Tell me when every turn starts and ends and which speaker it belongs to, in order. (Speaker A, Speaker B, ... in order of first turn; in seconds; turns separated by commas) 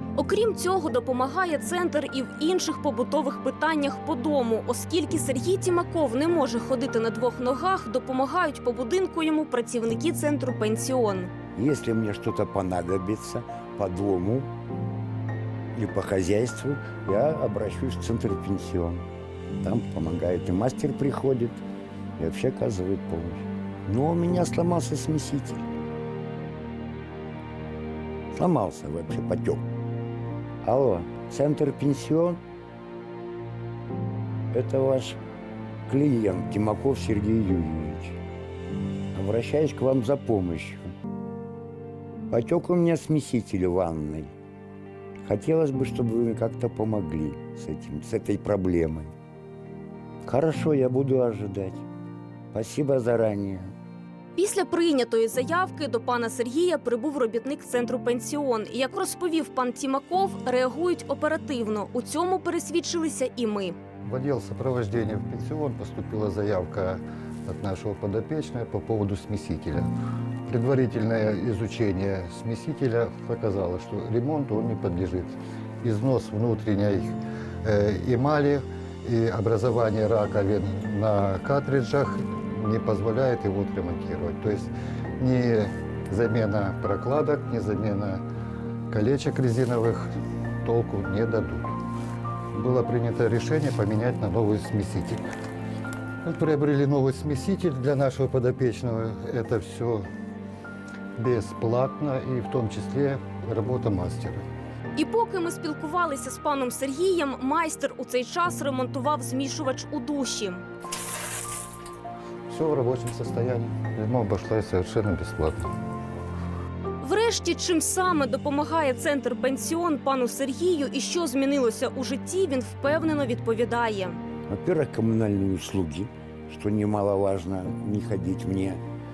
Speaker A: 0.2-11.3, Speaker B: 11.5-14.5, Speaker B: 15.7-19.1, Speaker B: 19.6-21.6, Speaker B: 22.2-25.7, Speaker B: 28.3-29.7, Speaker B: 30.6-32.4, Speaker B: 34.5-35.2, Speaker B: 35.9-38.2, Speaker B: 39.1-40.9, Speaker B: 42.3-44.3, Speaker B: 45.2-49.1, Speaker B: 50.2-51.8, Speaker B: 52.5-53.7, Speaker A: 54.4-63.8, Speaker C: 64.0-69.9, Speaker C: 70.5-88.2, Speaker C: 88.9-90.1, Speaker C: 90.6-91.7, Speaker C: 92.5-95.2, Speaker C: 96.2-100.0, Speaker C: 101.2-104.4, Speaker A: 105.0-110.6, Speaker C: 112.5-115.7, Speaker A: 117.0-124.2, Speaker B: 124.5-128.8